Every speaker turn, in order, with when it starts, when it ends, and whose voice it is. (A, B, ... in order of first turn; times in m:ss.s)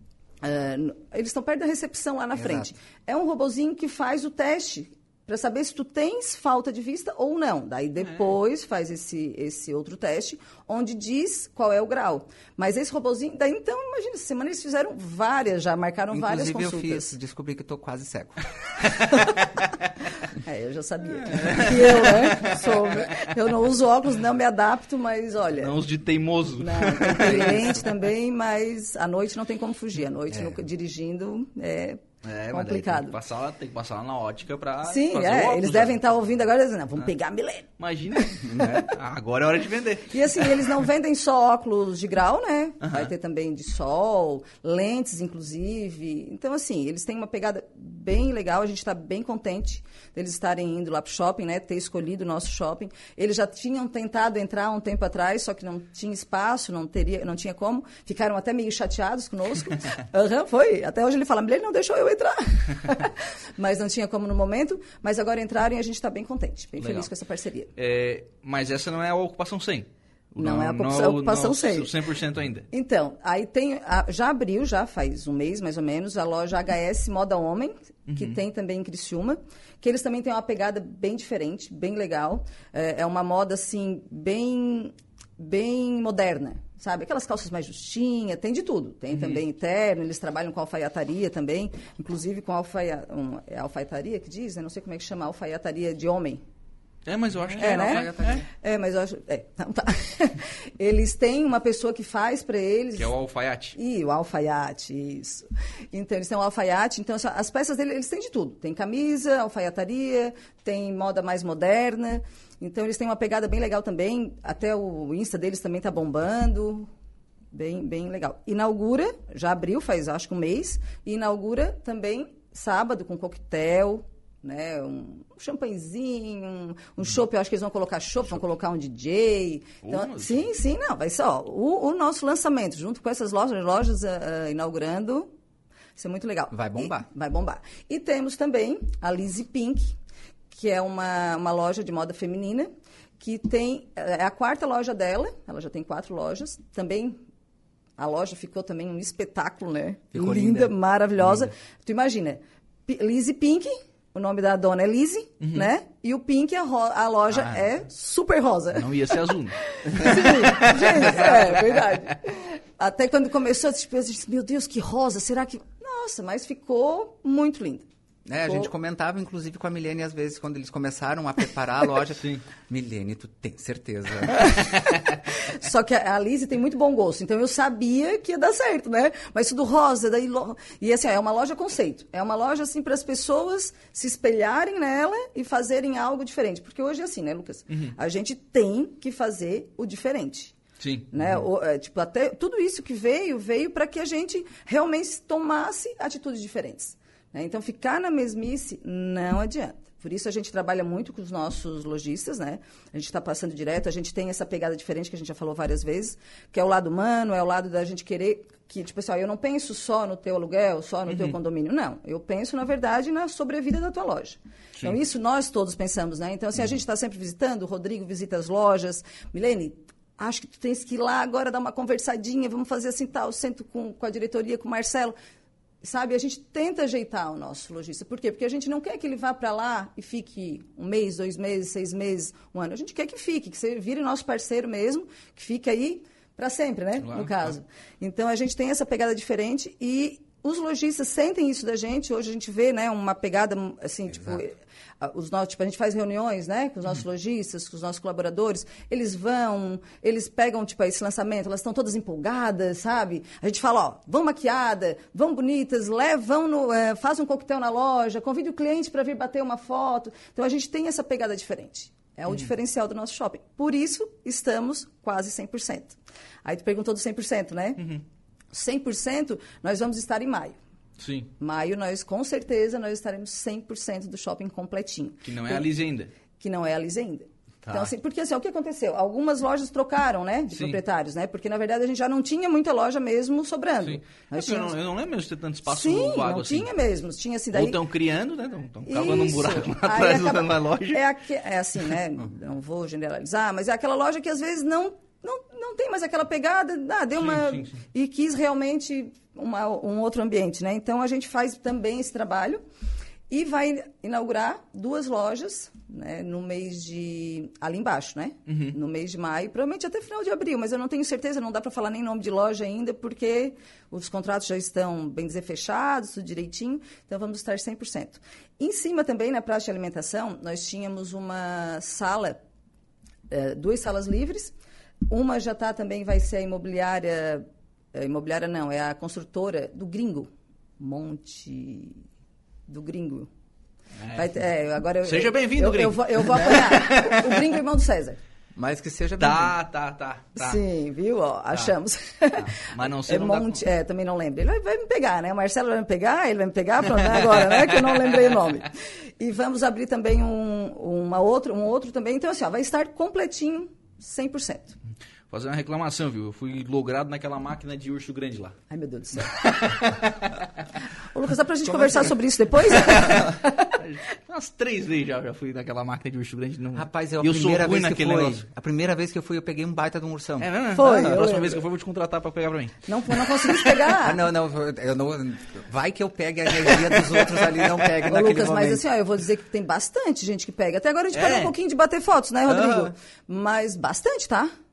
0:00.4-0:17.2 A
0:02.4-0:02.7 B
0:08.0-0:08.3 C
0:16.1-0:18.5 B
0:20.4-0:25.8 A
0:21.2-0:23.3 C
0:25.5-0:27.7 C
0:26.6-0:32.0 A
0:30.3-0:30.6 B
0:32.2-0:36.1 C
0:32.5-0:33.2 A
0:34.8-0:38.5 A
0:37.8-0:40.6 C
0:38.5-0:38.8 B
0:40.1-1:07.7 A
0:42.8-0:43.1 C
1:06.8-1:07.1 C
1:07.8-1:12.7 C
1:10.4-1:11.9 A
1:12.7-1:36.4 A
1:18.1-1:18.4 C
1:29.1-1:29.4 C
1:37.0-1:38.4 C
1:37.6-1:38.4 B
1:37.6-1:43.1 A
1:42.9-1:43.8 C
1:43.8-1:56.9 A
1:57.5-2:15.3 A
2:09.8-2:10.5 C
2:16.0-2:19.9 A
2:16.5-2:17.1 B
2:20.5-2:22.7 A
2:23.2-2:27.2 A
2:28.0-2:38.9 A
2:30.1-2:30.7 B
2:35.4-2:35.7 C
2:37.3-2:37.6 C
2:38.7-2:41.6 C
2:39.6-2:47.8 A
2:48.2-2:54.6 B
2:48.4-2:48.7 A
2:52.2-2:52.4 C
2:54.3-3:10.5 A
3:10.8-3:11.4 C
3:11.1-3:45.1 A
3:31.1-3:31.4 C
3:45.8-4:27.8 A
3:57.0-3:57.5 C
4:28.5-4:30.6 A
4:31.0-4:31.3 C
4:31.4-4:35.7 A
4:35.2-4:36.1 C
4:36.4-4:44.8 A
4:37.6-4:37.9 C
4:40.5-4:40.8 C
4:43.8-4:46.7 C
4:45.7-4:47.8 A
4:47.5-4:51.0 C
4:48.8-5:02.6 A
4:57.2-4:57.7 C
5:03.3-5:22.4 A
5:08.5-5:08.8 C
5:23.3-5:24.5 A
5:25.1-5:32.0 A
5:32.7-5:33.3 A
5:34.0-5:34.4 C
5:34.1-5:38.2 A
5:35.0-5:37.3 C
5:38.6-5:39.6 B
5:39.2-5:40.6 C
5:40.4-5:54.8 A
5:42.3-5:43.6 C
5:55.3-5:58.6 C
5:58.7-5:59.9 A
5:59.4-5:59.9 C
6:01.0-6:03.7 A
6:02.7-6:08.4 C
6:06.7-6:10.5 B
6:10.4-6:13.7 C
6:10.7-6:11.6 A
6:12.9-6:14.2 A
6:14.0-6:18.8 B
6:18.1-6:24.5 A
6:21.1-6:21.5 C
6:22.5-6:22.9 B